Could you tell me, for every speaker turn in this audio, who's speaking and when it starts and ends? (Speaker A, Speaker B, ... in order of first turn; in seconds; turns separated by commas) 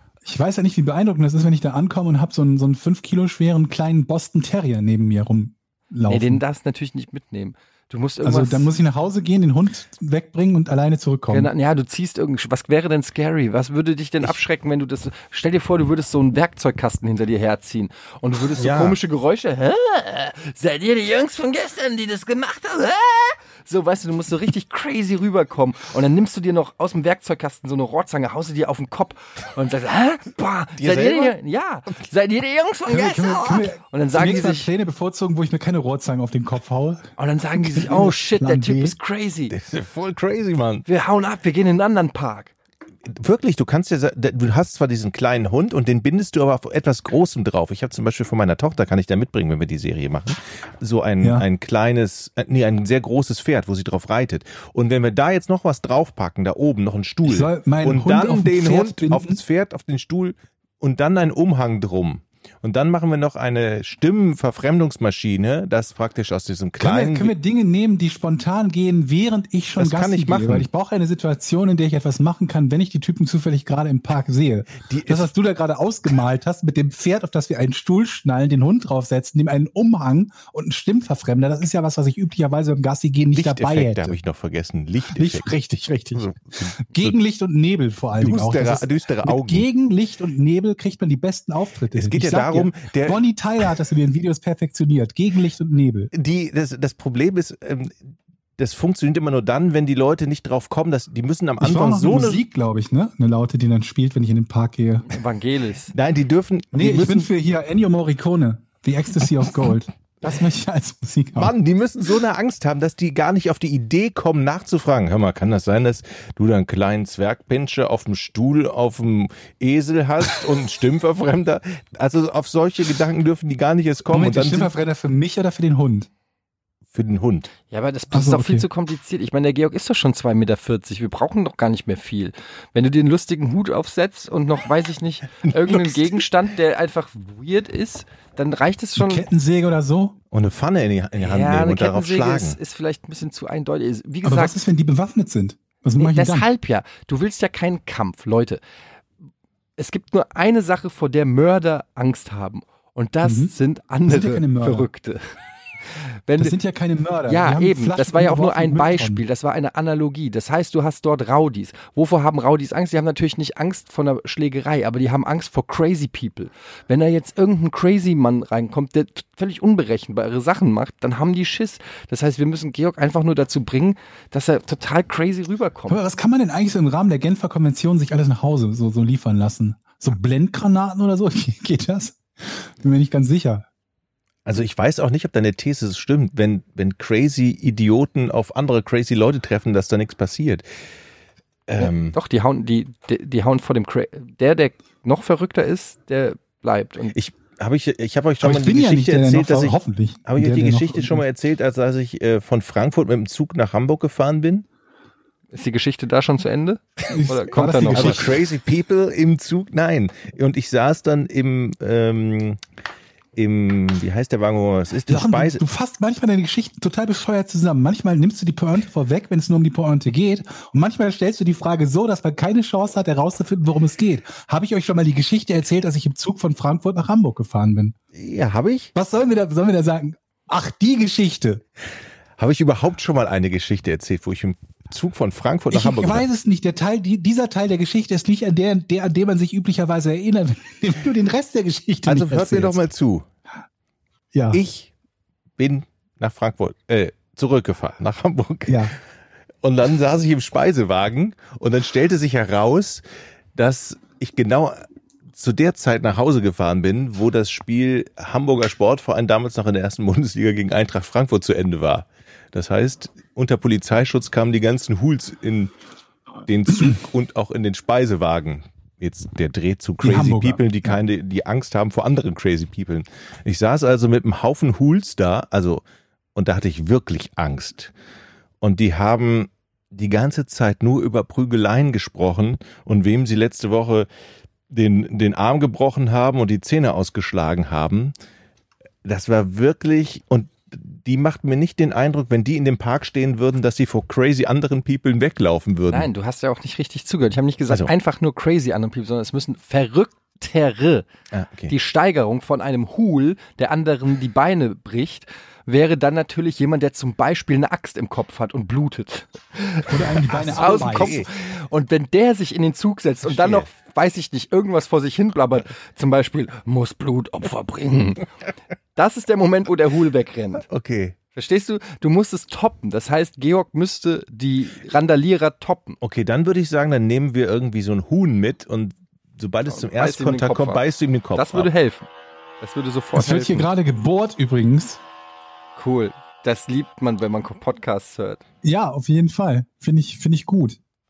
Speaker A: 0.2-6.4, Speaker B: 6.1-8.7, Speaker A: 8.2-11.5, Speaker B: 11.3-34.7, Speaker C: 18.6-19.0, Speaker C: 30.8-31.3, Speaker A: 32.9-38.9, Speaker B: 37.2-39.5, Speaker C: 39.5-40.9, Speaker B: 40.9-42.5, Speaker C: 43.0-67.3, Speaker A: 51.2-51.5, Speaker A: 57.2-59.4, Speaker A: 66.8-84.2, Speaker C: 69.8-70.7, Speaker C: 74.8-75.3, Speaker C: 83.3-85.5, Speaker A: 85.1-96.1, Speaker C: 86.1-87.1, Speaker C: 88.2-89.7, Speaker C: 91.9-93.2, Speaker C: 96.1-98.0, Speaker C: 98.6-102.4, Speaker A: 101.6-105.1, Speaker B: 105.1-105.9, Speaker C: 105.9-107.3, Speaker A: 106.7-111.5, Speaker C: 111.3-124.7, Speaker A: 124.1-126.1, Speaker C: 126.9-127.5, Speaker B: 127.7-139.2, Speaker A: 128.1-128.7, Speaker C: 135.5-136.1, Speaker A: 139.0-140.2, Speaker C: 140.3-142.6, Speaker B: 141.2-144.6, Speaker A: 144.2-146.5, Speaker B: 146.0-148.6, Speaker B: 149.8-155.3, Speaker A: 153.2-153.5, Speaker A: 154.1-154.9, Speaker B: 155.8-156.6, Speaker A: 156.4-159.2, Speaker B: 157.3-176.0, Speaker A: 175.9-183.6, Speaker C: 184.4-190.6, Speaker C: 191.7-192.2, Speaker B: 191.8-197.1, Speaker C: 197.1-204.6, Speaker A: 198.4-201.2, Speaker B: 205.5-208.3, Speaker A: 207.1-208.3, Speaker C: 207.9-212.6, Speaker C: 213.3-215.6, Speaker A: 215.1-227.9, Speaker C: 228.1-228.9, Speaker A: 228.9-231.6, Speaker C: 232.4-236.2, Speaker A: 235.7-242.8, Speaker C: 242.1-243.2, Speaker A: 244.3-244.6, Speaker C: 244.5-244.9, Speaker C: 245.6-249.0, Speaker A: 248.7-248.9, Speaker C: 249.6-253.0, Speaker C: 253.5-265.7, Speaker C: 266.4-275.8, Speaker A: 270.0-271.0, Speaker C: 276.3-277.9, Speaker C: 278.6-284.1, Speaker C: 284.7-288.1, Speaker C: 289.0-296.1, Speaker B: 295.9-301.1, Speaker C: 301.3-301.7, Speaker B: 301.7-318.3, Speaker A: 309.9-311.1, Speaker C: 310.3-311.3, Speaker C: 313.2-313.7, Speaker B: 318.9-320.6, Speaker C: 320.6-321.1, Speaker B: 321.3-326.0, Speaker C: 326.0-331.7, Speaker B: 329.7-330.8, Speaker B: 331.3-332.1, Speaker B: 332.6-333.7, Speaker A: 333.1-335.0, Speaker B: 335.8-338.4, Speaker A: 338.6-340.8